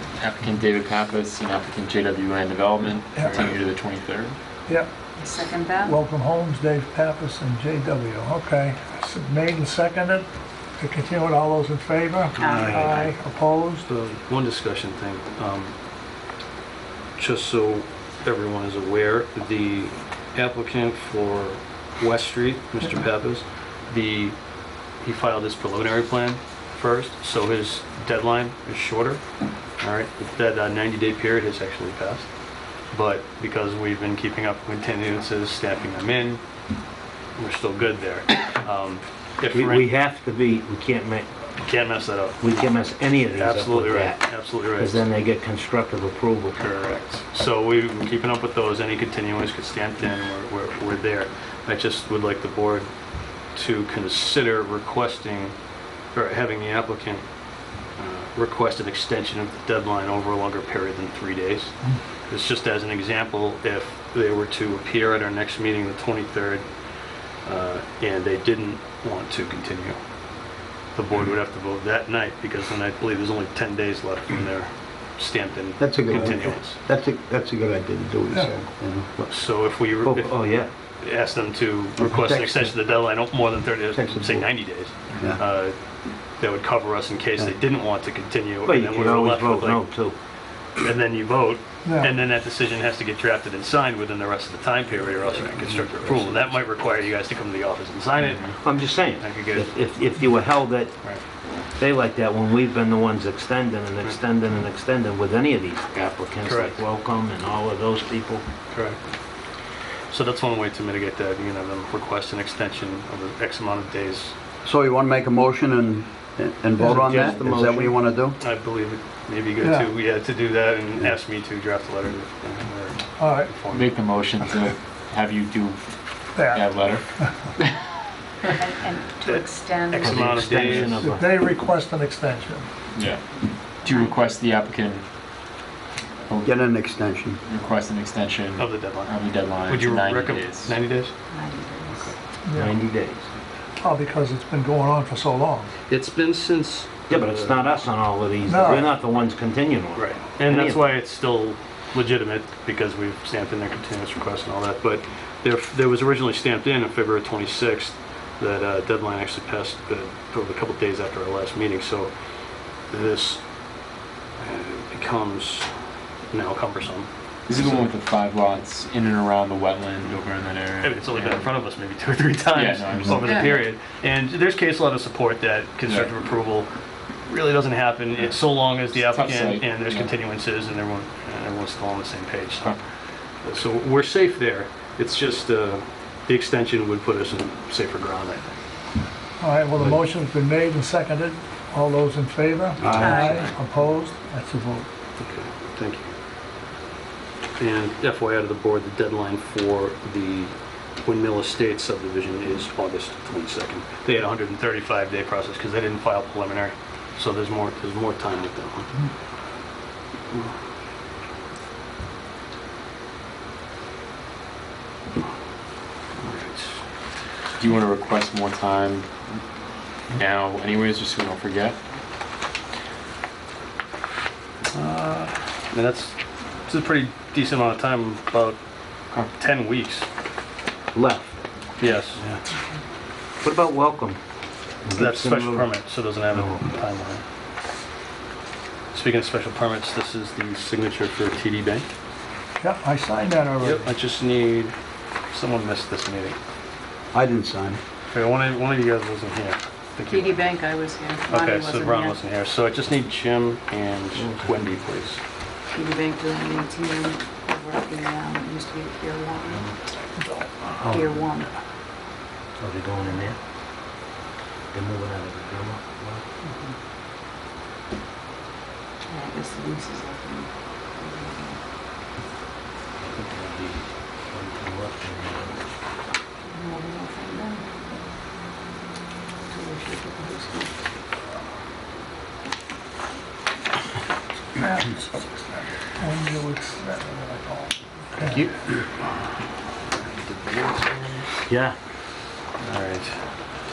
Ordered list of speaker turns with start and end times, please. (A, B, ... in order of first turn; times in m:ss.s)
0:00.2-0:04.4 A
0:04.7-0:04.9 B
0:05.2-0:06.0 C
0:05.8-0:10.3 B
0:10.8-0:13.9 B
0:12.4-0:13.1 C
0:12.5-0:12.8 D
0:13.9-0:15.7 D
0:17.2-0:24.4 D
0:25.0-0:29.2 D
0:29.8-0:32.3 D
0:32.9-0:36.4 D
0:37.4-0:39.9 D
0:39.5-0:41.3 E
0:41.6-0:42.7 D
0:42.4-0:46.6 E
0:43.2-0:45.0 D
0:46.6-0:52.9 D
0:53.5-0:55.5 D
0:56.1-0:57.2 D
0:58.0-1:06.6 D
1:07.4-1:10.0 D
1:10.9-1:16.8 D
1:15.8-1:19.1 F
1:19.2-1:25.8 D
1:20.0-1:20.7 E
1:22.0-1:22.7 F
1:23.9-1:24.5 F
1:25.1-1:25.4 F
1:26.4-1:29.8 D
1:28.6-1:30.2 E
1:30.8-1:39.8 D
1:31.8-1:32.1 B
1:35.6-1:36.2 F
1:36.0-1:36.4 E
1:38.6-1:40.9 E
1:41.8-1:48.4 E
1:46.4-1:46.8 D
1:48.7-1:49.0 D
1:50.1-1:54.3 D
1:54.6-1:58.4 F
1:56.8-1:57.9 E
1:56.8-1:57.1 B
1:57.0-1:57.4 D
1:58.4-2:04.0 D
1:59.6-1:59.9 B
2:03.2-2:03.6 B
2:03.7-2:07.8 A
2:06.3-2:07.3 B
2:08.4-2:10.2 C
2:09.3-2:11.1 D
2:10.0-2:11.3 E
2:10.8-2:12.7 B
2:12.9-2:15.1 A
2:13.8-2:14.1 C
2:16.3-2:16.6 A
2:16.4-2:17.4 F
2:17.4-2:20.8 A
2:18.6-2:21.1 D
2:21.3-2:22.1 C
2:21.9-2:22.1 D
2:22.4-2:22.7 B
2:22.5-2:23.3 E
2:23.8-2:25.7 B
2:25.9-2:27.6 D
2:27.1-2:30.9 E
2:28.4-2:28.9 B
2:29.9-2:42.1 D
2:42.9-2:43.4 D
2:44.4-2:45.7 D
2:46.3-2:47.1 D
2:47.5-2:51.5 A
2:50.8-2:56.7 D
2:52.5-2:53.6 A
2:53.2-2:53.6 C
2:57.2-3:02.9 D
2:58.7-3:00.1 A
3:03.4-3:08.6 D
3:09.4-3:14.9 B
3:12.8-3:13.5 F
3:13.0-3:13.4 C
3:15.2-3:16.1 D
3:17.6-3:29.0 D
3:36.2-3:36.8 D
3:37.6-3:39.4 A
3:40.1-3:41.8 A
3:44.7-3:48.6 D
3:49.1-3:50.1 D
3:50.9-3:51.4 E
3:51.8-3:52.4 D
3:53.4-3:54.2 E
3:54.8-3:55.7 E
3:54.9-3:57.2 D
3:58.9-4:01.8 D
4:02.6-4:03.9 B
4:03.6-4:04.7 D
4:05.3-4:06.4 D
4:07.1-4:07.8 F
4:08.1-4:10.4 D
4:10.1-4:12.2 C
4:11.3-4:15.2 D
4:14.1-4:14.7 E
4:15.7-4:19.7 C
4:20.8-4:21.1 E
4:20.8-4:21.5 C
4:22.6-4:23.4 E
4:24.7-4:26.2 E
4:29.1-4:31.6 C
4:33.0-4:35.6 E
4:36.5-4:37.8 C
4:39.5-4:40.7 C
4:44.5-4:48.4 B
4:50.2-4:51.2 D
4:51.5-4:51.8 E
4:52.6-4:53.3 D